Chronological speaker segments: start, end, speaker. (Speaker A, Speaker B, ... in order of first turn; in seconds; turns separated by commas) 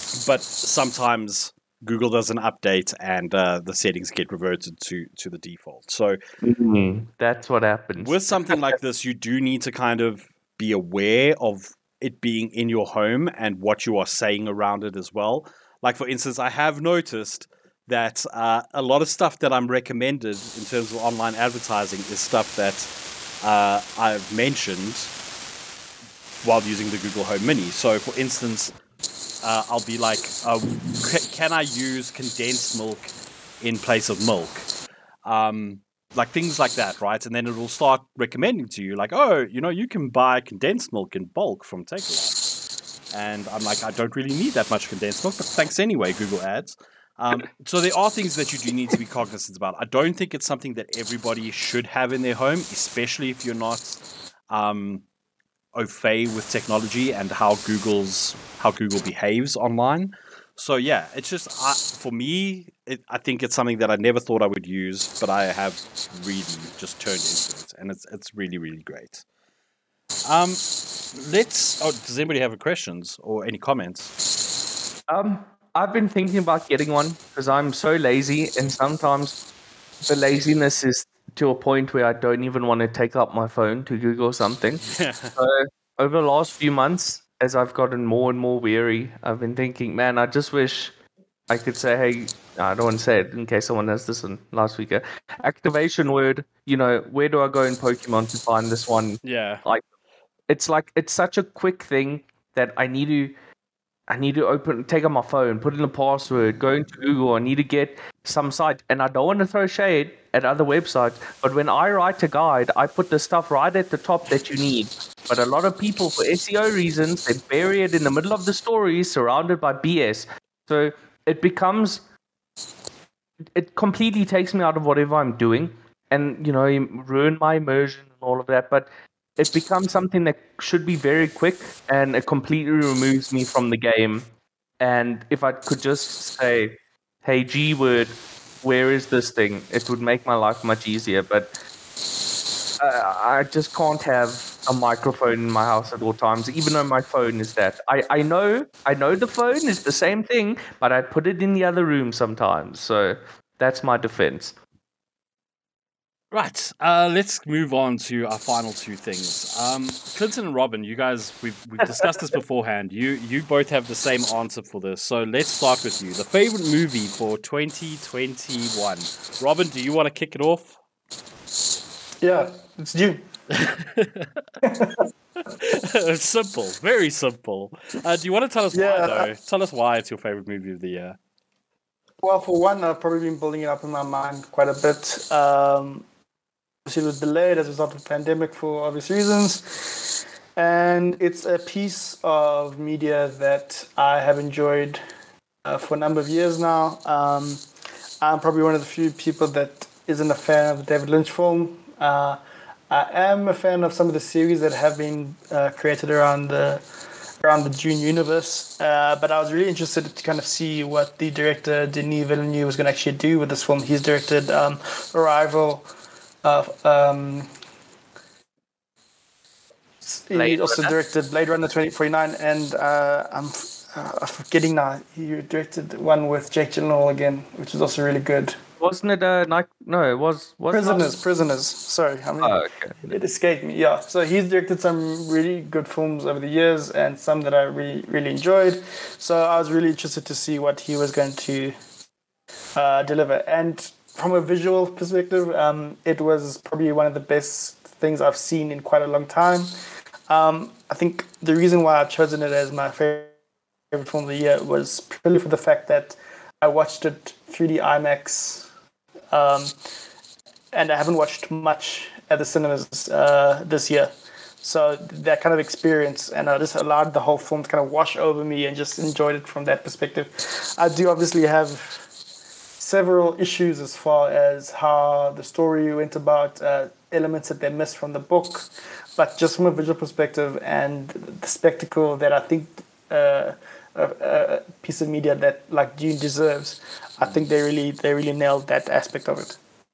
Speaker A: 0.2-6.2, Speaker B: 6.4-8.8, Speaker A: 8.0-22.9, Speaker A: 23.4-25.1, Speaker A: 26.4-28.8, Speaker A: 29.4-34.7, Speaker A: 35.2-42.4, Speaker A: 43.1-55.1, Speaker A: 55.8-69.2, Speaker A: 70.3-70.6, Speaker A: 71.2-74.1, Speaker B: 75.1-79.4, Speaker B: 80.1-84.8, Speaker A: 84.8-85.3, Speaker B: 85.4-91.0, Speaker B: 91.5-99.8, Speaker A: 99.2-99.6, Speaker B: 100.5-103.3, Speaker B: 104.1-122.0, Speaker B: 123.5-134.3, Speaker B: 134.8-141.6, Speaker B: 142.8-154.6, Speaker A: 156.3-170.8, Speaker C: 172.2-173.2, Speaker A: 173.5-174.4, Speaker C: 174.6-175.0, Speaker A: 175.5-181.2, Speaker C: 178.7-179.3, Speaker C: 182.2-186.1, Speaker C: 186.8-195.0, Speaker C: 195.7-197.6, Speaker C: 198.2-206.8, Speaker C: 207.4-215.9, Speaker C: 216.4-217.5, Speaker C: 220.0-228.6, Speaker B: 220.3-220.9, Speaker B: 228.8-231.1, Speaker C: 230.7-241.8, Speaker B: 232.4-233.2, Speaker C: 242.8-249.7, Speaker C: 250.3-253.3, Speaker C: 253.9-258.7, Speaker C: 259.3-259.8, Speaker C: 260.7-272.1, Speaker C: 272.8-289.6